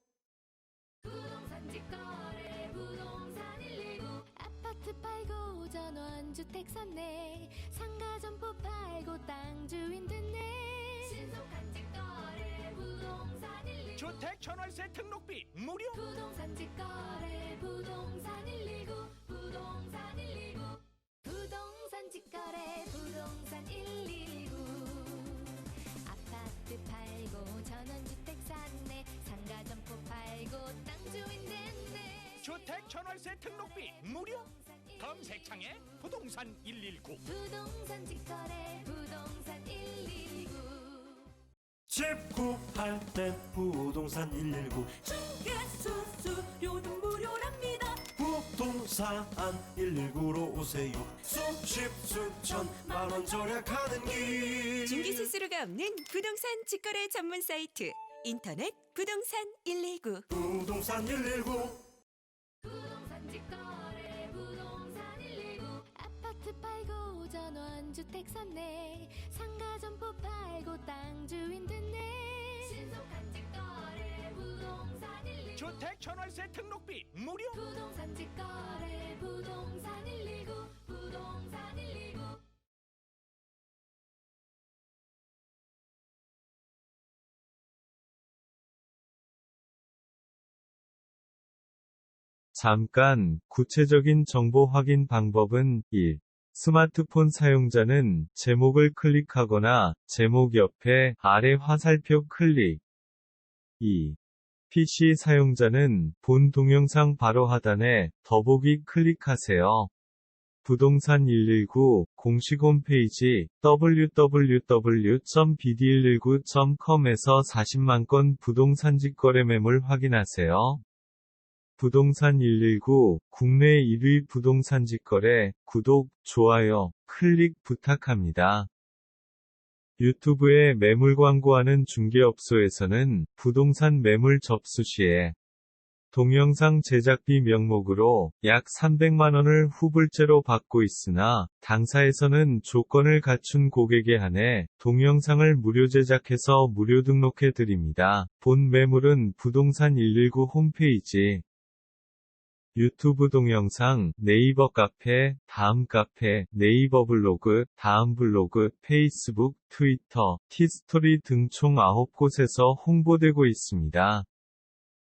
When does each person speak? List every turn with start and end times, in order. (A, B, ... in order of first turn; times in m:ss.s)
0:01.0-0:14.0 A
0:14.0-0:16.0 B
0:15.9-0:36.3 A
0:32.4-0:34.4 B
0:35.0-0:37.2 B
0:37.2-0:41.3 A
0:41.9-0:45.1 C
0:45.2-0:47.9 D
0:48.0-0:55.3 C
0:54.8-1:00.3 D
1:00.3-1:01.8 C
1:02.6-1:15.6 A
1:15.6-1:17.6 B
1:17.5-1:22.4 A
1:32.5-1:42.8 E
1:43.8-1:44.2 E
1:44.7-1:49.9 E
1:50.6-2:00.8 E
2:01.8-2:08.7 E
2:10.0-2:15.4 E
2:16.1-2:31.4 E
2:32.8-2:44.3 E